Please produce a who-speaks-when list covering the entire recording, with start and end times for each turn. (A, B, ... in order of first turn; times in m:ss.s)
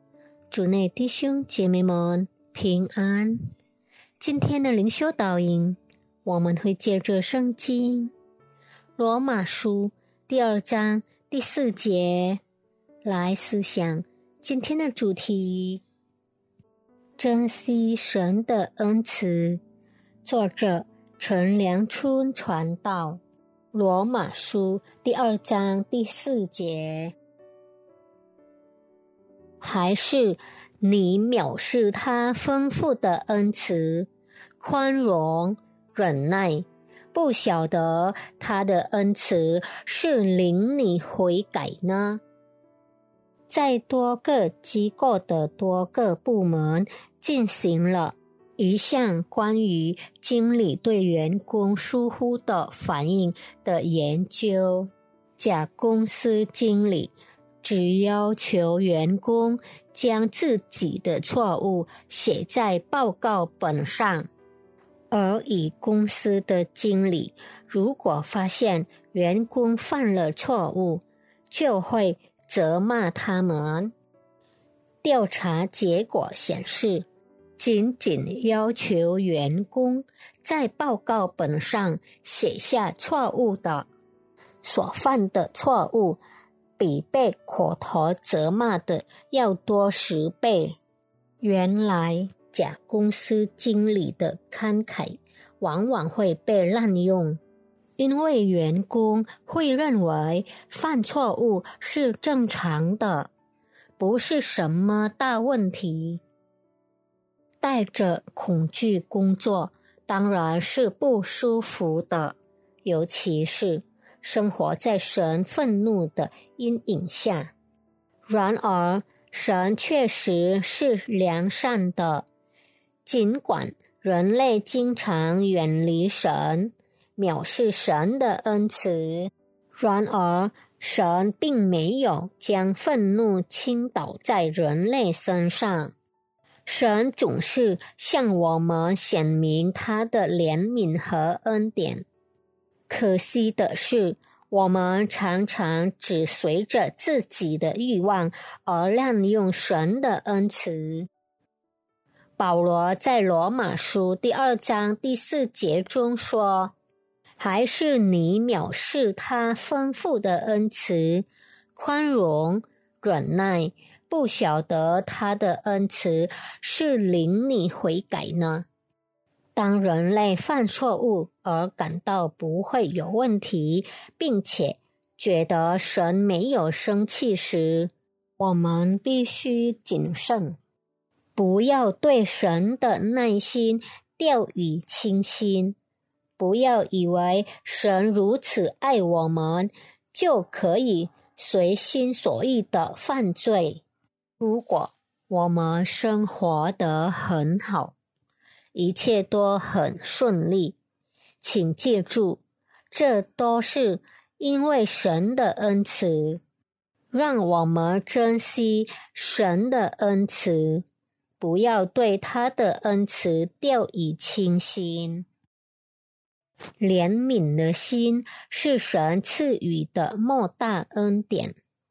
0:00.5-0:03.5 A
0:04.2-0:08.1 A
0:09.0-0:12.4 A
0:13.0-0:15.8 A
0:17.2-0:19.6 A
0:20.2-0:23.2 A
0:23.7-0:27.1 A
0:29.6-0:42.2 A
0:43.5-1:04.3 A
1:05.1-1:13.9 A
1:15.0-1:17.0 A
1:17.6-1:23.9 A
1:24.6-1:26.2 A
1:26.8-1:30.8 A
1:31.4-1:37.4 A
1:38.0-1:43.3 A
1:44.0-1:46.2 A
1:47.6-1:57.5 A
1:58.2-2:02.2 A
2:03.0-2:15.9 A
2:16.6-2:22.1 A
2:22.9-2:31.1 A
2:32.4-2:36.7 A
2:37.4-2:48.7 A
2:49.5-3:00.6 A
3:01.4-3:05.8 A
3:06.4-3:13.8 A
3:14.4-3:17.9 A
3:18.7-3:20.8 A
3:21.4-3:26.4 A
3:27.1-3:30.8 A
3:31.4-3:35.3 A
3:36.8-3:41.6 A